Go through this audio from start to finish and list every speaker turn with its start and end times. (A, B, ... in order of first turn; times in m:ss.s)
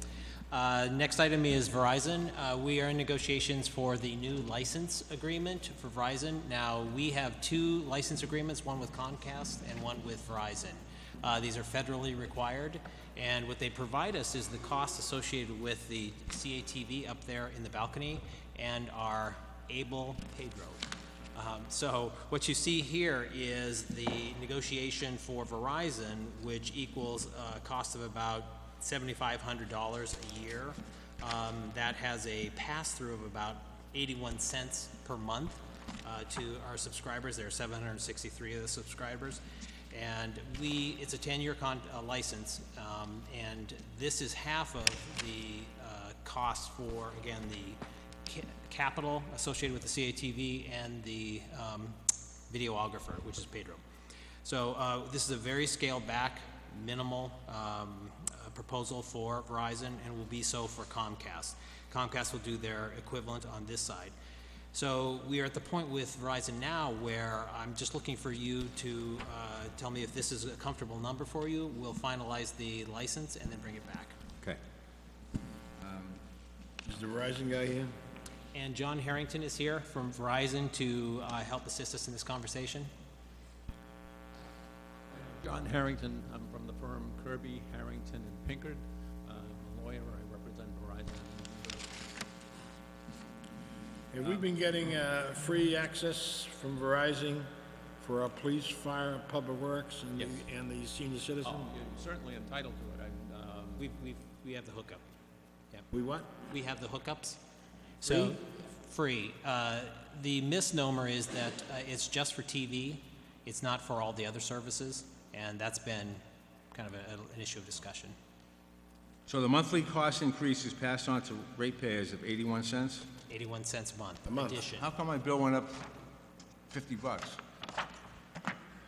0:00.5-0:39.4 A
0:39.9-0:52.0 A
0:52.5-0:53.8 A
0:54.4-1:04.1 A
1:04.7-1:14.2 A
1:15.8-1:16.2 B
1:16.8-1:17.9 C
1:18.5-1:22.9 A
1:25.2-1:31.8 D
1:34.1-1:37.5 C
1:38.0-1:41.7 C
1:41.4-1:43.9 D
1:43.8-1:45.0 A
1:45.9-1:46.3 C
1:46.5-1:47.4 A
1:48.0-1:56.2 A
1:48.0-1:48.4 C
1:56.7-1:58.2 A
1:59.3-2:03.1 B
2:03.3-2:04.9 A
2:04.3-2:04.6 C
2:04.7-2:05.8 B
2:06.7-2:07.4 B